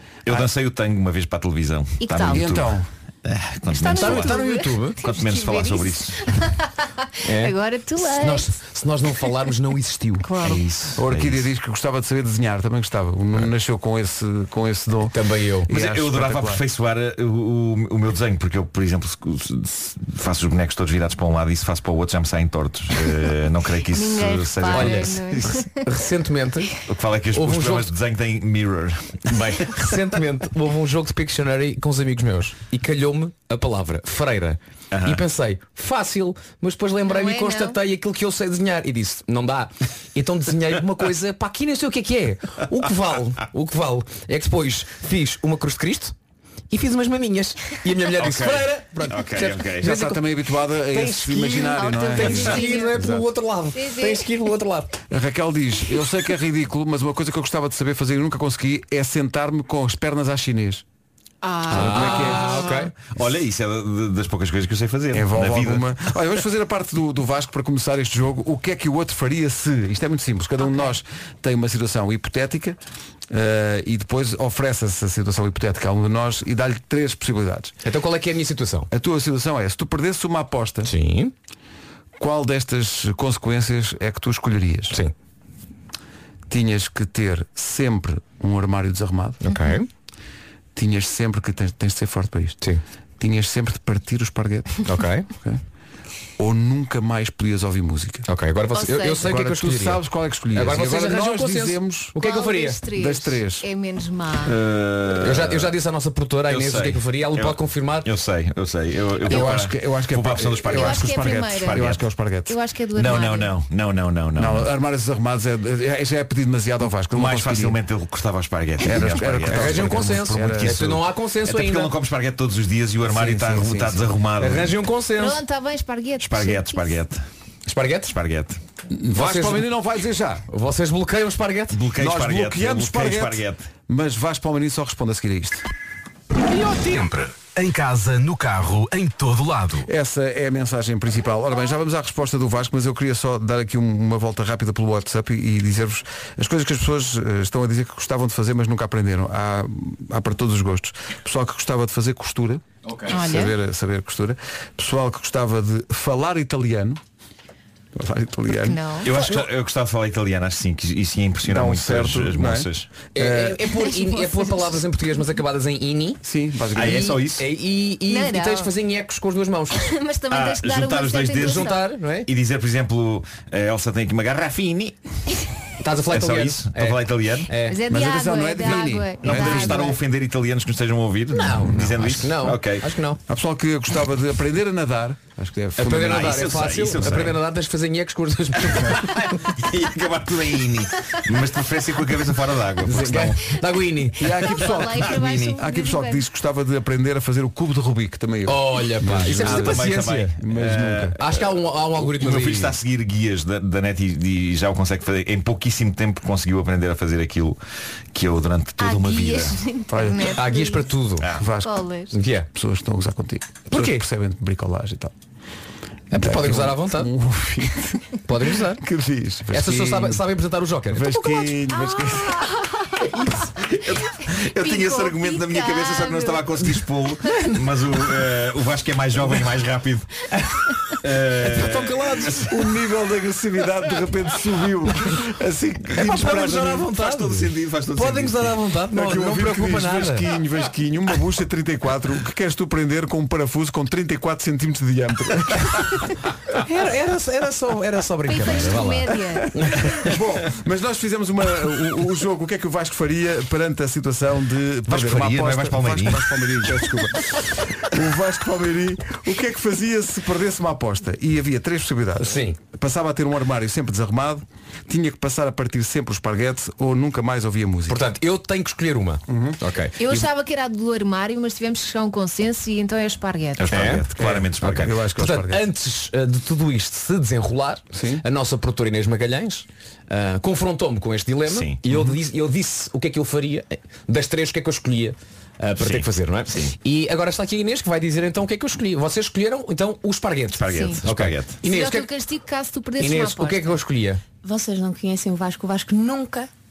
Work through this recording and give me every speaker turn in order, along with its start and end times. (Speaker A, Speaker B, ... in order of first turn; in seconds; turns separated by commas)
Speaker A: 0.3-6.3, Speaker B: 2.0-2.5, Speaker C: 2.3-2.9, Speaker B: 3.7-8.5, Speaker D: 3.9-5.0, Speaker D: 7.2-10.8, Speaker B: 10.2-10.6, Speaker A: 10.4-11.5, Speaker C: 11.0-16.6, Speaker D: 15.1-15.7, Speaker A: 15.7-25.7, Speaker B: 23.9-25.9, Speaker D: 24.7-26.8, Speaker A: 26.9-29.9, Speaker D: 27.3-27.9, Speaker D: 29.3-46.1, Speaker A: 34.9-35.2, Speaker B: 37.1-37.8, Speaker D: 46.7-50.2, Speaker A: 48.1-50.0, Speaker C: 49.8-53.3, Speaker D: 50.9-55.0, Speaker B: 51.7-53.0, Speaker B: 53.7-54.3, Speaker C: 55.1-60.8, Speaker B: 61.4-62.8, Speaker C: 61.7-62.7, Speaker D: 61.7-62.9, Speaker A: 63.0-66.3, Speaker C: 65.1-72.8, Speaker B: 70.6-70.9, Speaker C: 73.3-77.7, Speaker D: 77.8-78.9, Speaker C: 78.9-80.9, Speaker D: 80.8-81.3, Speaker C: 82.2-85.0, Speaker C: 86.5-89.4, Speaker D: 89.4-89.9, Speaker C: 90.8-92.6, Speaker C: 93.2-94.8, Speaker D: 94.8-95.3, Speaker C: 96.4-98.3, Speaker D: 98.3-100.0, Speaker B: 98.7-99.2, Speaker C: 99.2-102.2, Speaker D: 100.5-102.8, Speaker B: 102.2-104.6, Speaker C: 103.0-103.7, Speaker A: 104.4-105.8, Speaker D: 105.2-108.1, Speaker A: 106.5-112.0, Speaker B: 109.3-109.6, Speaker C: 109.3-112.6, Speaker B: 110.6-111.9, Speaker B: 112.5-113.5, Speaker A: 112.9-114.7, Speaker C: 114.4-117.8, Speaker A: 117.1-124.8, Speaker C: 118.8-120.9, Speaker D: 119.5-122.0, Speaker D: 123.1-125.4, Speaker C: 123.3-123.8, Speaker B: 125.2-127.0, Speaker A: 126.2-127.2, Speaker D: 127.7-128.2, Speaker A: 128.1-128.6, Speaker C: 128.9-130.5, Speaker D: 129.2-129.7, Speaker D: 130.5-131.8, Speaker A: 131.7-133.7, Speaker C: 132.0-135.7, Speaker E: 136.4-139.9, Speaker C: 139.8-157.0, Speaker B: 153.1-153.6, Speaker C: 157.9-158.8, Speaker B: 158.5-159.3, Speaker A: 159.0-162.9, Speaker C: 161.4-163.6, Speaker D: 163.1-166.2, Speaker B: 163.7-164.8, Speaker C: 166.2-167.1, Speaker A: 166.8-167.5, Speaker D: 166.8-169.9, Speaker B: 168.1-168.7, Speaker B: 169.7-171.8, Speaker A: 170.3-175.0, Speaker D: 171.3-172.3, Speaker D: 175.8-177.8, Speaker A: 176.1-177.5, Speaker B: 177.6-180.0, Speaker C: 177.9-179.9, Speaker A: 179.2-182.9, Speaker D: 181.3-183.2, Speaker C: 183.3-187.4, Speaker D: 185.8-189.3, Speaker A: 186.0-187.4, Speaker A: 188.7-193.4, Speaker D: 192.9-194.3, Speaker C: 194.2-201.2, Speaker B: 194.3-196.2, Speaker A: 194.7-195.6, Speaker D: 198.5-200.4, Speaker A: 199.2-207.6, Speaker D: 201.1-202.8, Speaker A: 208.1-209.7, Speaker B: 208.8-210.9, Speaker C: 209.9-210.4, Speaker D: 210.3-211.3, Speaker A: 211.2-211.5, Speaker C: 211.3-211.8, Speaker B: 211.6-212.1, Speaker D: 212.1-212.5, Speaker C: 212.5-215.1, Speaker D: 213.7-214.1, Speaker D: 216.1-217.1, Speaker C: 216.1-218.2, Speaker D: 218.2-218.8, Speaker C: 218.7-220.2, Speaker D: 219.5-221.2, Speaker C: 220.9-222.6, Speaker B: 221.4-223.4, Speaker A: 223.5-230.2, Speaker B: 224.1-226.4, Speaker D: 230.4-232.5, Speaker A: 231.0-232.6, Speaker C: 232.5-236.9, Speaker D: 235.9-240.3, Speaker A: 236.0-238.6, Speaker C: 238.9-246.0, Speaker D: 246.5-250.0, Speaker B: 248.3-249.6, Speaker C: 249.9-268.0, Speaker A: 254.9-256.5, Speaker D: 262.2-262.6, Speaker D: 267.9-270.3, Speaker C: 269.3-269.6, Speaker B: 270.0-274.0, Speaker A: 273.6-275.0, Speaker D: 273.7-292.1, Speaker C: 274.1-275.7, Speaker C: 277.9-278.2, Speaker A: 281.5-281.9, Speaker A: 285.8-286.8, Speaker A: 290.6-291.6, Speaker B: 290.7-291.0, Speaker B: 291.6-293.8, Speaker D: 293.0-294.2, Speaker F: 294.4-296.5